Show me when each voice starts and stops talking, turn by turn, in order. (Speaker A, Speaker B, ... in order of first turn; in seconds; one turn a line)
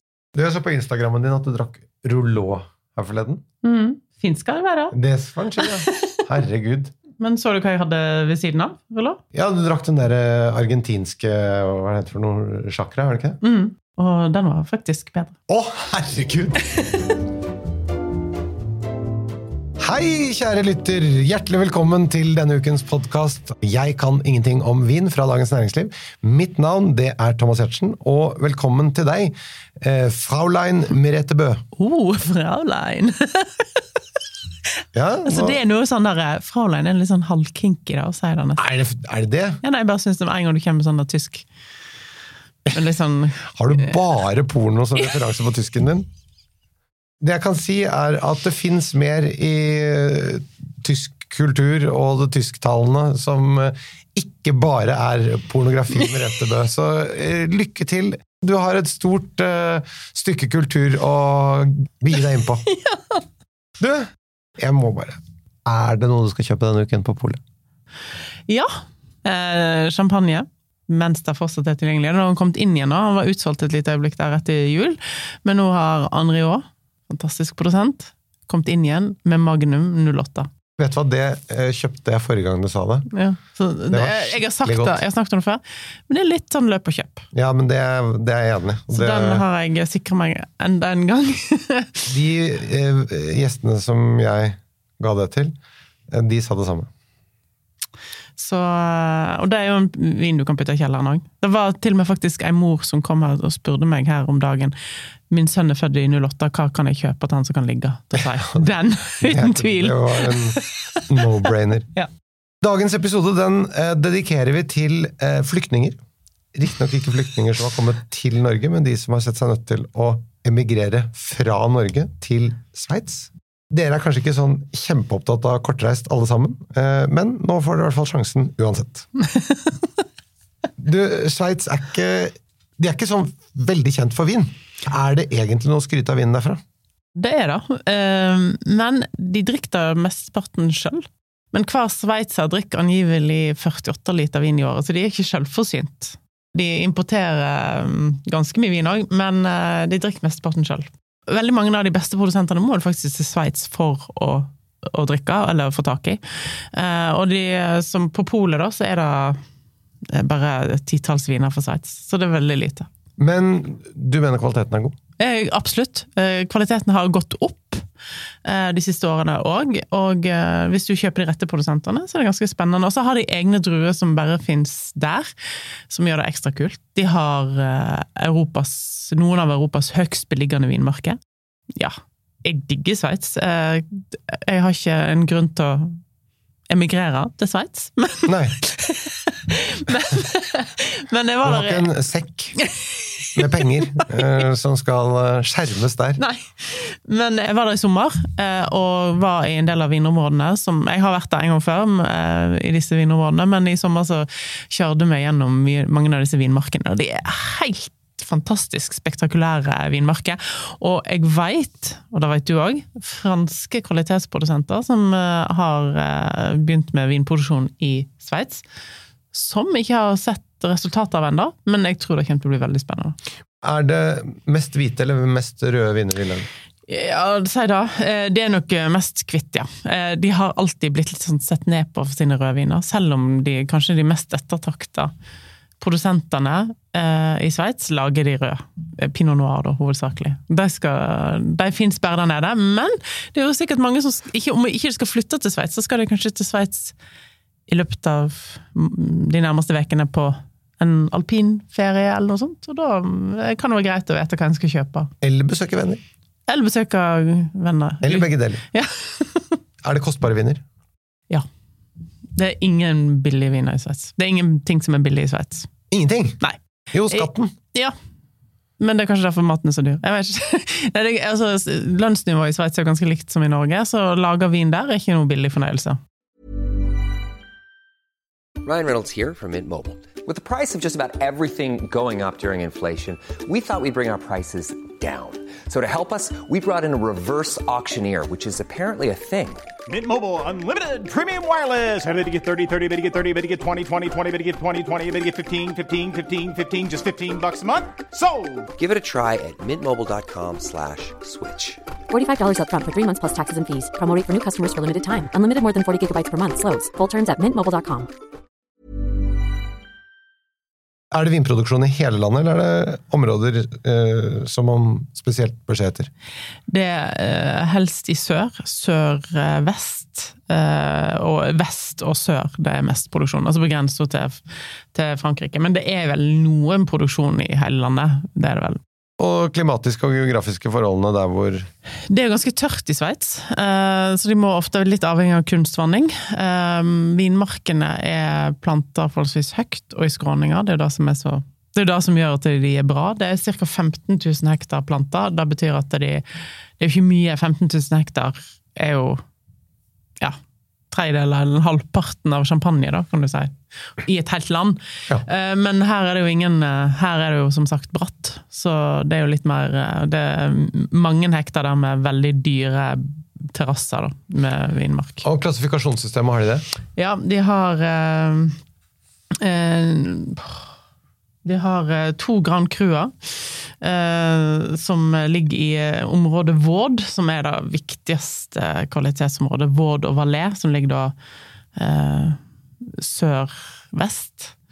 Speaker A: 0.3-3.4
Speaker B: 3.6-5.0
Speaker A: 4.9-6.9
Speaker B: 5.6-6.1
Speaker B: 7.2-9.2
Speaker A: 9.3-13.4
Speaker B: 13.4-15.3
Speaker A: 15.5-16.6
Speaker A: 19.8-31.6
Speaker B: 31.8-33.8
Speaker A: 34.9-35.6
Speaker B: 35.2-38.6
Speaker A: 38.6-39.6
Speaker B: 39.6-41.5
Speaker B: 42.7-43.9
Speaker A: 43.5-46.1
Speaker A: 47.2-62.6
Speaker B: 62.7-63.2
Speaker A: 63.8-67.4
Speaker B: 68.5-80.5
Speaker A: 80.8-83.1
Speaker B: 83.1-87.3
Speaker A: 83.9-85.0
Speaker A: 87.3-89.5
Speaker B: 88.9-92.1
Speaker A: 92.1-95.6
Speaker A: 96.1-96.9
Speaker B: 98.4-104.8
Speaker B: 105.3-111.2
Speaker A: 109.2-111.9
Speaker A: 112.6-116.0
Speaker A: 116.5-129.1
Speaker B: 129.3-129.8
Speaker A: 130.8-136.6
Speaker B: 137.2-159.4
Speaker B: 160.1-162.9
Speaker A: 163.2-165.0
Speaker B: 165.2-167.9
Speaker B: 168.4-175.3
Speaker B: 175.9-181.2
Speaker B: 181.8-186.0
Speaker B: 186.7-191.9
Speaker A: 188.3-188.6
Speaker A: 191.4-192.7
Speaker B: 192.6-193.4
Speaker A: 193.3-196.2
Speaker B: 196.2-218.6
Speaker B: 219.3-223.2
Speaker A: 223.6-226.5
Speaker B: 226.9-235.1
Speaker B: 235.8-246.9
Speaker B: 247.7-255.1
Speaker A: 255.2-256.0
Speaker B: 256.5-259.6
Speaker A: 258.0-258.6
Speaker A: 259.8-260.6
Speaker B: 262.4-265.7
Speaker A: 265.9-266.4
Speaker B: 266.4-267.9
Speaker A: 266.9-267.5
Speaker B: 268.8-276.0
Speaker C: 278.6-289.7
Speaker D: 289.9-298.7
Speaker C: 298.8-301.8
Speaker E: 302.1-308.1
Speaker A: 311.1-316.1
Speaker B: 316.7-324.4
Speaker B: 324.9-328.8
Speaker A: 329.2-331.7
Speaker B: 332.1-346.2
Speaker B: 346.8-349.2
Speaker B: 350.9-365.2
Speaker A: 365.2-366.6
Speaker B: 367.0-368.6
Speaker B: 369.4-370.6
Speaker B: 371.4-381.1
Speaker B: 381.8-384.5